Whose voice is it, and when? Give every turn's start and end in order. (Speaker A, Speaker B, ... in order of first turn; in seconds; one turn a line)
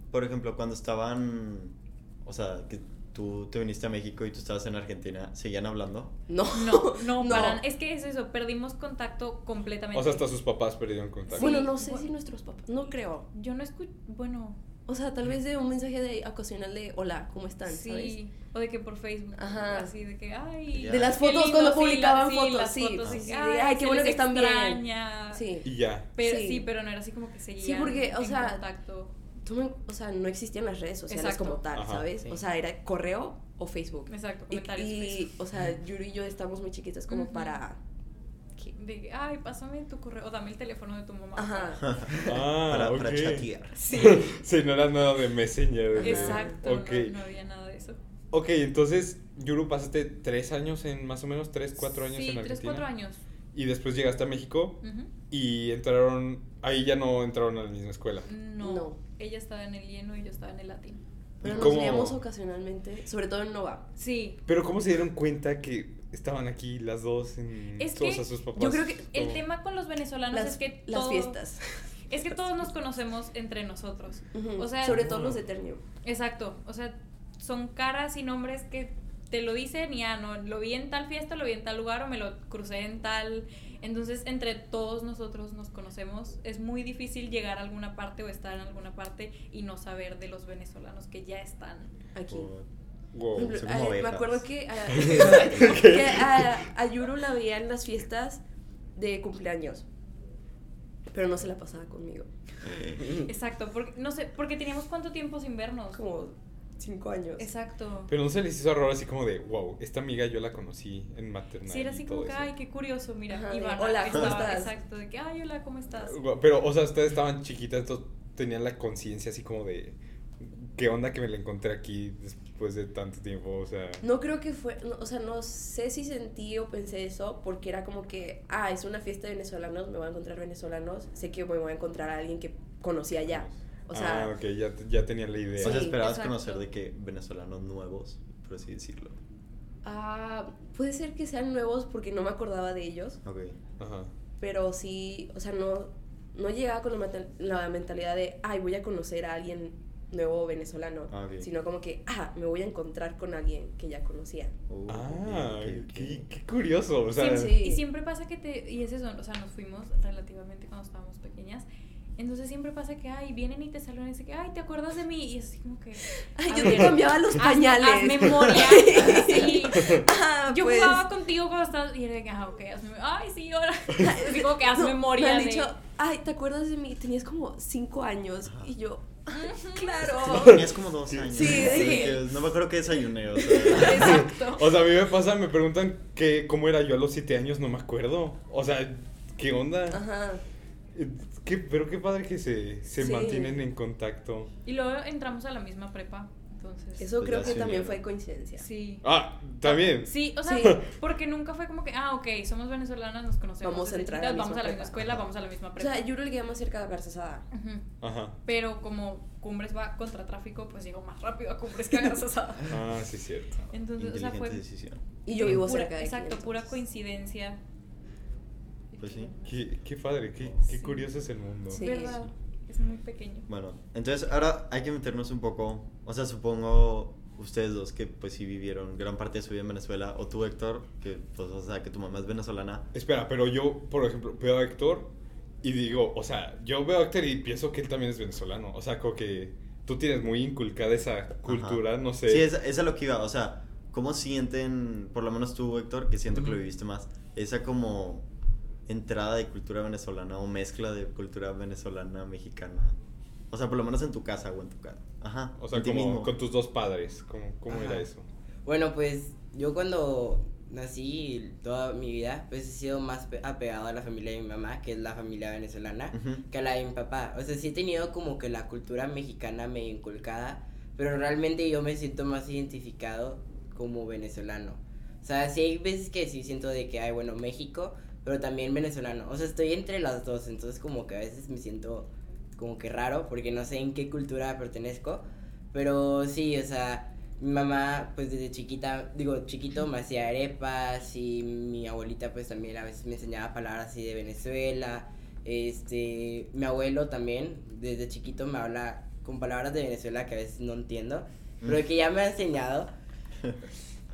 Speaker A: 0.1-6.1
Speaker B: 6.3-7.6
Speaker C: 6.5-10.3
Speaker D: 9.9-11.7
Speaker C: 11.3-12.1
Speaker B: 11.3-13.3
Speaker C: 13.3-14.6
Speaker B: 14.9-18.2
Speaker C: 17.7-25.6
Speaker B: 19.4-19.9
Speaker A: 20.7-21.2
Speaker B: 20.9-26.7
Speaker D: 25.6-26.1
Speaker C: 26.1-29.1
Speaker B: 27.6-28.6
Speaker B: 29.4-37.8
Speaker C: 31.1-31.6
Speaker D: 31.7-32.1
Speaker C: 34.1-35.3
Speaker C: 37.1-37.6
Speaker C: 38.6-41.9
Speaker B: 41.4-41.9
Speaker A: 41.8-43.8
Speaker D: 42.2-47.1
Speaker C: 43.8-44.4
Speaker B: 46.0-46.6
Speaker C: 46.0-48.0
Speaker D: 48.3-52.9
Speaker C: 52.1-53.2
Speaker D: 53.5-58.3
Speaker C: 54.8-55.1
Speaker C: 58.3-61.0
Speaker B: 58.6-59.0
Speaker A: 61.4-62.1
Speaker B: 61.4-63.9
Speaker D: 61.4-62.2
Speaker C: 64.0-64.4
Speaker D: 64.5-69.4
Speaker C: 67.8-68.3
Speaker B: 68.6-69.0
Speaker C: 68.9-71.4
Speaker B: 70.3-71.8
Speaker C: 72.1-75.0
Speaker B: 74.3-75.8
Speaker D: 74.8-75.4
Speaker C: 76.0-91.9
Speaker B: 92.2-92.5
Speaker A: 92.3-92.7
Speaker D: 93.1-93.6
Speaker B: 93.4-98.4
Speaker A: 93.4-94.5
Speaker D: 94.9-96.6
Speaker B: 99.0-99.8
Speaker B: 101.1-102.3
Speaker A: 102.7-103.0
Speaker E: 103.0-103.3
Speaker C: 103.2-106.0
Speaker B: 105.9-107.5
Speaker C: 107.4-108.1
Speaker D: 108.1-112.5
Speaker C: 111.7-116.2
Speaker B: 113.3-114.7
Speaker D: 116.0-124.0
Speaker B: 124.0-134.3
Speaker D: 133.3-135.9
Speaker A: 135.6-139.2
Speaker B: 135.6-136.0
Speaker C: 135.7-136.6
Speaker B: 139.8-143.2
Speaker A: 143.2-143.6
Speaker D: 143.8-144.1
Speaker B: 144.4-154.5
Speaker A: 151.1-151.5
Speaker A: 154.7-156.3
Speaker D: 154.9-157.6
Speaker C: 157.2-161.7
Speaker B: 157.2-157.8
Speaker C: 162.2-175.7
Speaker B: 166.2-171.0
Speaker B: 174.0-180.7
Speaker C: 179.3-180.3
Speaker A: 180.2-184.2
Speaker D: 181.1-181.7
Speaker B: 181.3-182.2
Speaker C: 181.4-182.2
Speaker B: 183.4-184.3
Speaker C: 183.6-184.7
Speaker D: 183.9-190.0
Speaker B: 189.9-190.4
Speaker D: 190.9-194.5
Speaker B: 193.0-193.6
Speaker C: 194.7-197.1
Speaker B: 197.0-198.7
Speaker A: 197.2-198.0
Speaker C: 198.6-199.1
Speaker D: 199.0-200.8
Speaker C: 199.6-206.1
Speaker B: 200.4-200.8
Speaker B: 203.6-205.2
Speaker B: 205.8-207.5
Speaker C: 207.5-207.8
Speaker D: 208.0-208.4
Speaker C: 208.4-212.8
Speaker D: 212.7-213.6
Speaker C: 213.7-214.6
Speaker A: 214.0-215.0
Speaker B: 215.3-216.7
Speaker C: 215.3-217.6
Speaker C: 218.9-219.5
Speaker A: 219.0-219.3
Speaker D: 219.5-222.2
Speaker C: 220.7-221.1
Speaker B: 221.7-222.2
Speaker C: 221.7-223.5
Speaker A: 223.5-232.8
Speaker D: 232.9-235.1
Speaker D: 235.6-242.5
Speaker A: 241.5-248.3
Speaker A: 248.9-253.0
Speaker A: 253.5-256.3
Speaker D: 255.6-258.3
Speaker E: 257.7-258.1
Speaker E: 258.6-302.9
Speaker A: 266.1-266.4